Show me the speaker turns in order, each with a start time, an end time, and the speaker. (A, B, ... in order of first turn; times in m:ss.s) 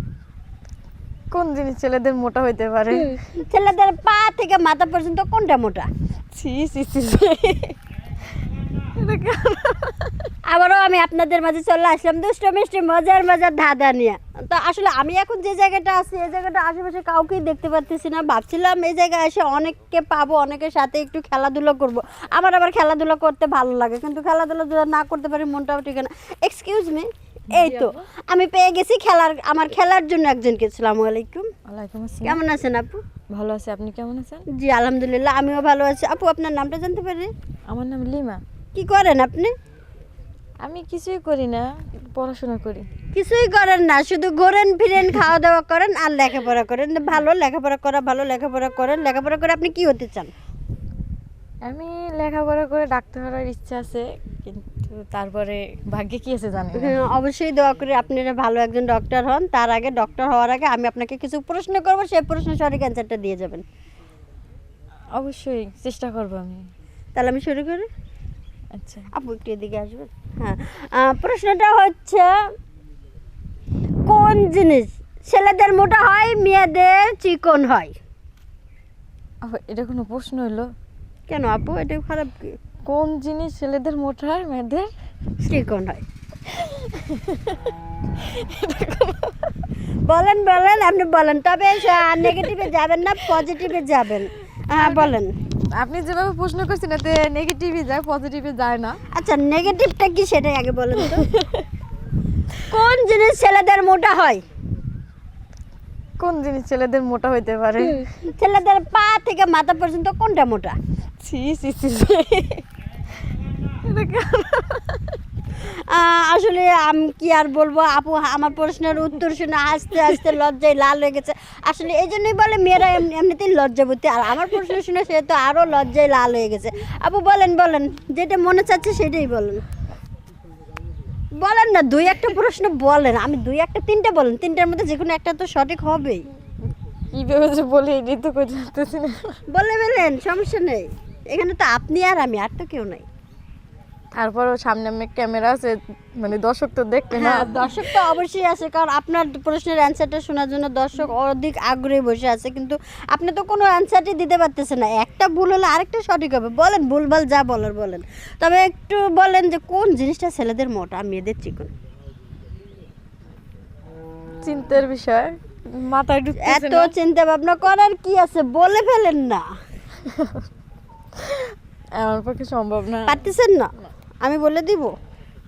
0:01.3-0:03.2 A
0:03.4-0:05.9 B
0:06.3-0:07.8 A
0:09.0-0:10.1 A
0:10.5-0:31.5 B
0:27.5-0:28.1 A
0:31.7-0:32.4 A
0:32.2-0:33.0 B
0:33.3-0:34.5 A
0:34.5-0:37.3 B
0:37.7-0:38.4 A
0:38.7-0:39.5 B
0:40.6-0:42.9 A
0:43.1-0:50.3 B
0:51.6-0:57.0 A
0:56.8-1:03.6 B
1:05.1-1:06.7 A
1:07.2-1:07.9 B
1:08.7-1:09.1 A
1:09.1-1:12.4 B
1:14.1-1:18.0 B
1:19.4-1:20.7 A
1:21.3-1:22.6 B
1:22.9-1:24.9 A
1:25.4-1:26.0 B
1:26.5-1:29.5 A
1:30.1-1:35.3 B
1:32.2-1:32.5 A
1:34.8-1:35.1 A
1:35.8-1:39.0 A
1:39.1-1:41.3 B
1:41.0-1:41.6 A
1:42.7-1:44.4 B
1:46.2-1:48.1 A
1:48.2-1:50.8 B
1:51.2-1:52.6 A
1:53.8-1:55.0 A
1:55.6-2:09.6 B
2:11.4-2:16.2 B
2:17.1-2:19.4 A
2:19.5-2:23.1 B
2:24.2-2:28.0 A
2:27.1-2:41.7 B
2:44.4-2:46.9 A
2:46.4-2:49.4 B
2:50.0-2:50.4 A
2:51.2-2:53.9 A
2:53.1-2:53.7 B
2:54.2-2:54.9 B